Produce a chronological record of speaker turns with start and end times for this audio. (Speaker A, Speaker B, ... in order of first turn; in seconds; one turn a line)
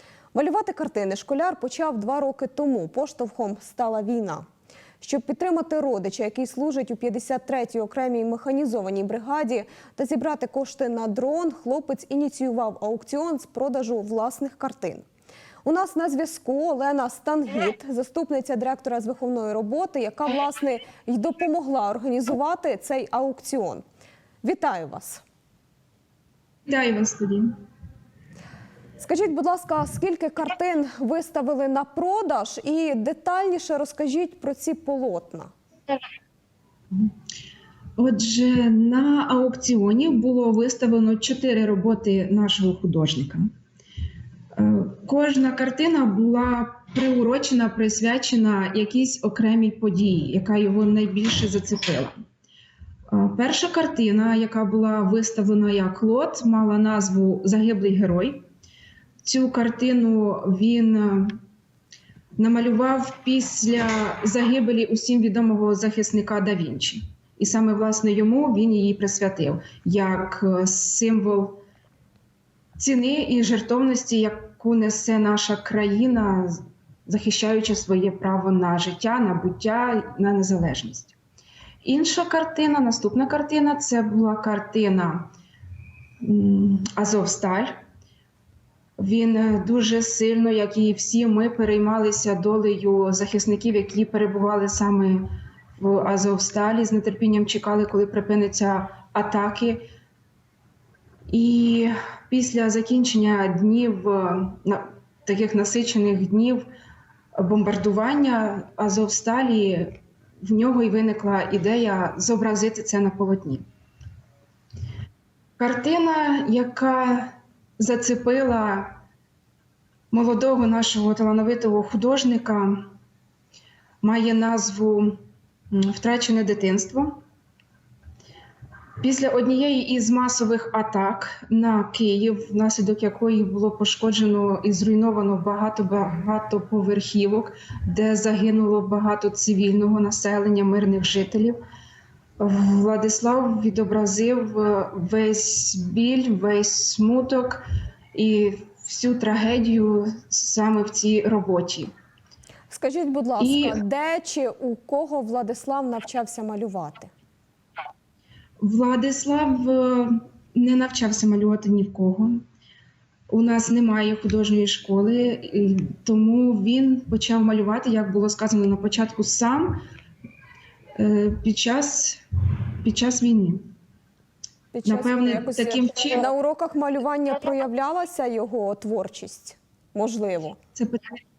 Speaker A: 0.3-4.5
Speaker A: 5.0-15.1
Speaker A: 15.6-23.8
Speaker A: 24.4-25.2
Speaker B: 26.7-27.5
Speaker A: 29.0-35.5
Speaker B: 38.0-43.5
Speaker B: 44.5-52.2
Speaker B: 53.1-58.4
Speaker B: 59.2-61.4
Speaker B: 62.4-71.6
Speaker B: 72.8-81.2
Speaker B: 81.8-85.3
Speaker B: 86.2-87.8
Speaker B: 89.0-95.3
Speaker B: 95.8-99.8
Speaker B: 101.3-106.6
Speaker B: 107.3-113.6
Speaker B: 115.6-119.0
Speaker B: 120.1-122.9
Speaker B: 124.0-125.2
Speaker B: 125.7-127.1
Speaker B: 129.0-141.6
Speaker B: 142.4-151.9
Speaker A: 152.7-157.1
Speaker B: 153.4-153.8
Speaker B: 158.6-162.4
Speaker B: 163.3-169.8
Speaker B: 171.0-172.2
Speaker B: 172.8-173.6
Speaker A: 174.7-180.6
Speaker B: 174.8-176.3
Speaker B: 180.8-181.1